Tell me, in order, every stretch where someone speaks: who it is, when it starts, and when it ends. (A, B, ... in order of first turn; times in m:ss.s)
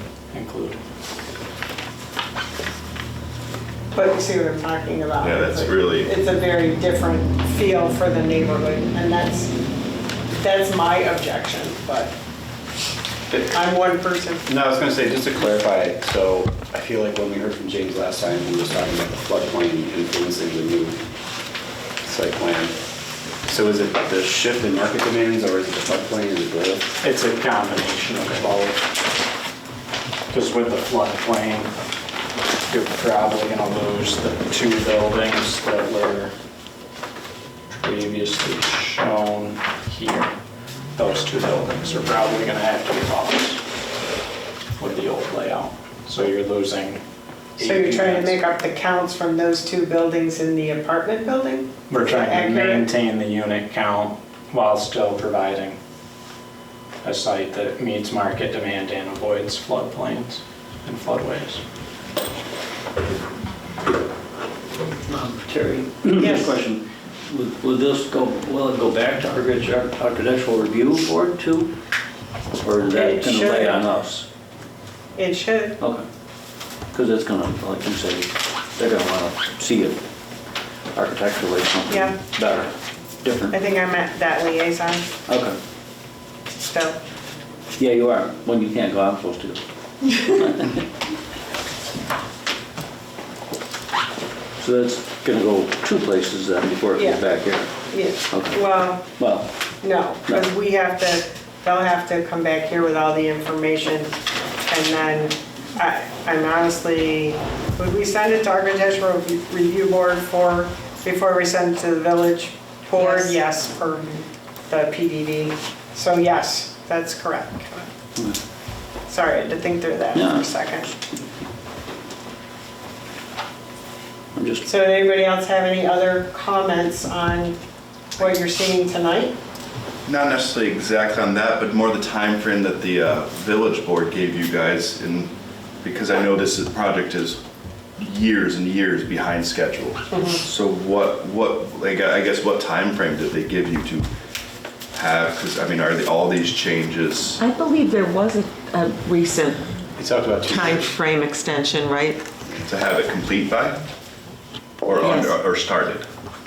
0:00.3-0:00.8 A
0:03.9-0:09.5 B
0:05.2-0:06.1 C
0:10.3-0:12.1 B
0:13.5-0:14.4 B
0:14.4-0:21.0 D
0:22.0-0:22.7 D
0:23.4-0:26.9 D
0:27.0-0:28.9 A
0:30.3-0:31.7 A
0:32.7-0:36.3 A
0:37.7-0:40.3 A
0:40.9-0:43.6 A
0:44.8-0:47.0 A
0:47.6-0:48.4 A
0:47.6-0:52.9 B
0:51.9-0:55.8 A
0:57.0-1:01.6 A
1:05.1-1:11.7 E
1:06.1-1:06.6 B
1:12.6-1:14.2 E
1:12.8-1:13.8 B
1:15.1-1:15.8 B
1:15.8-1:16.0 E
1:16.9-1:20.0 E
1:20.9-1:22.7 E
1:21.9-1:22.1 B
1:23.2-1:23.6 E
1:23.5-1:25.1 B
1:25.3-1:25.6 E
1:26.6-1:27.0 B
1:27.8-1:30.8 E
1:34.6-1:37.7 E
1:36.9-1:37.3 B
1:37.9-1:39.0 B
1:38.3-1:38.6 E
1:39.2-1:39.5 E
1:39.8-1:44.1 B
1:44.6-1:54.1 B
1:53.0-1:53.4 F
1:54.7-1:57.9 B
1:59.1-2:00.9 B
2:00.1-2:00.5 E
2:04.3-2:04.6 E
2:04.6-2:07.6 B
2:08.2-2:09.3 B
2:10.0-2:15.3 C
2:15.8-2:17.4 C
2:18.0-2:24.1 C
2:20.1-2:20.4 B
2:24.9-2:27.4 C
2:27.4-2:29.6 F
2:30.0-2:30.9 D
2:30.4-2:32.2 F
2:32.6-2:33.8 C
2:34.8-2:36.0 C
2:34.9-2:35.3 F